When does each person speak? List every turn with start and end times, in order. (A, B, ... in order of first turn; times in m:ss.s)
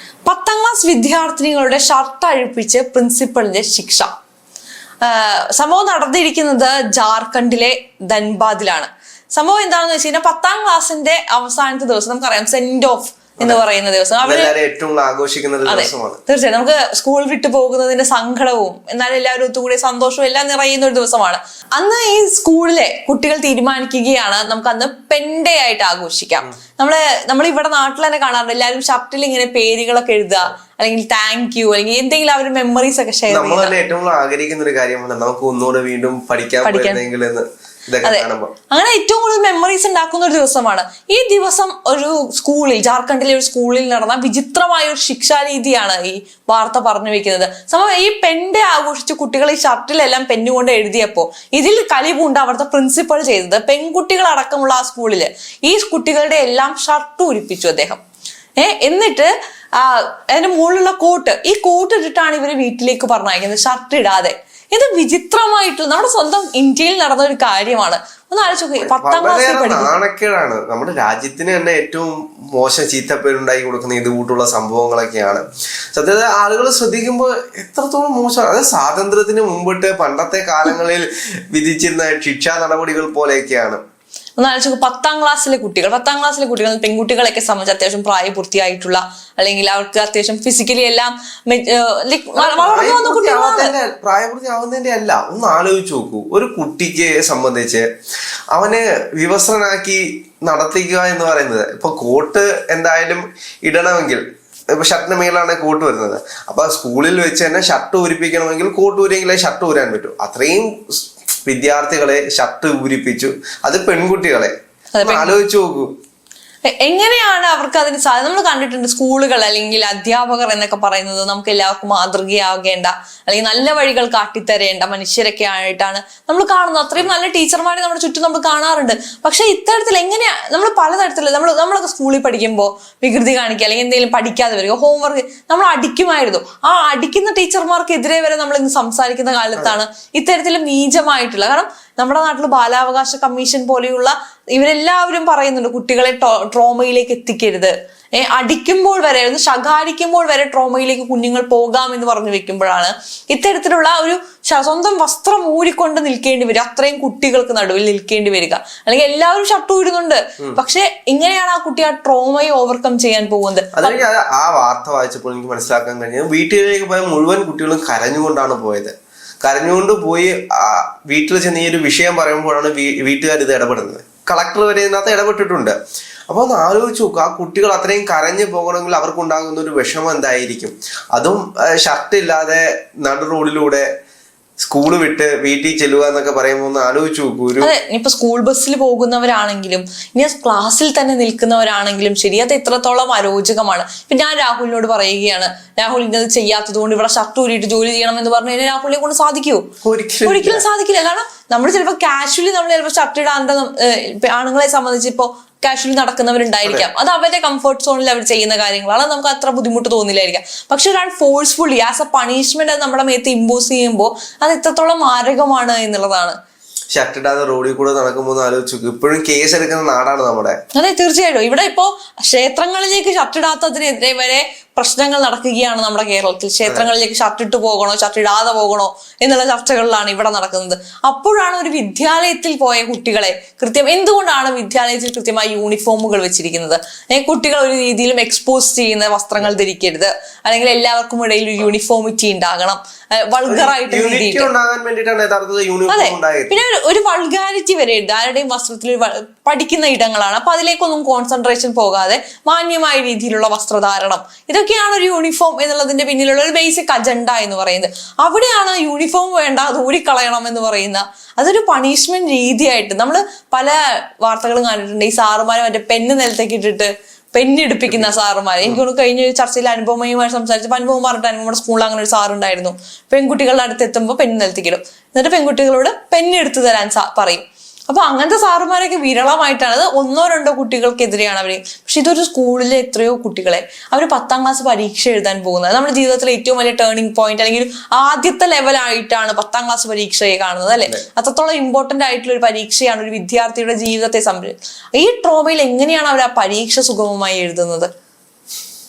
0:00.2-0:04.1 A
0:05.0-0:14.5 A
0:14.2-0:16.2 B
0:15.7-0:33.7 A
0:33.3-0:38.5 B
0:36.6-0:37.0 A
0:38.0-0:58.0 A
0:58.6-1:09.9 A
1:08.8-1:23.8 B
1:24.4-1:33.7 A
1:32.4-1:37.9 B
1:38.5-1:44.2 B
1:44.7-1:54.5 B
1:54.9-1:55.4 A
1:55.0-1:55.9 B
1:56.6-2:44.0 A
2:43.8-2:55.8 B
2:56.3-3:03.9 B
3:04.6-3:07.7 B
3:07.6-3:19.7 A
3:19.8-3:20.6 B
3:20.3-3:36.4 A
3:36.9-3:40.6 B
3:40.7-4:04.5 A
4:03.5-4:06.6 B
4:05.9-4:57.9 A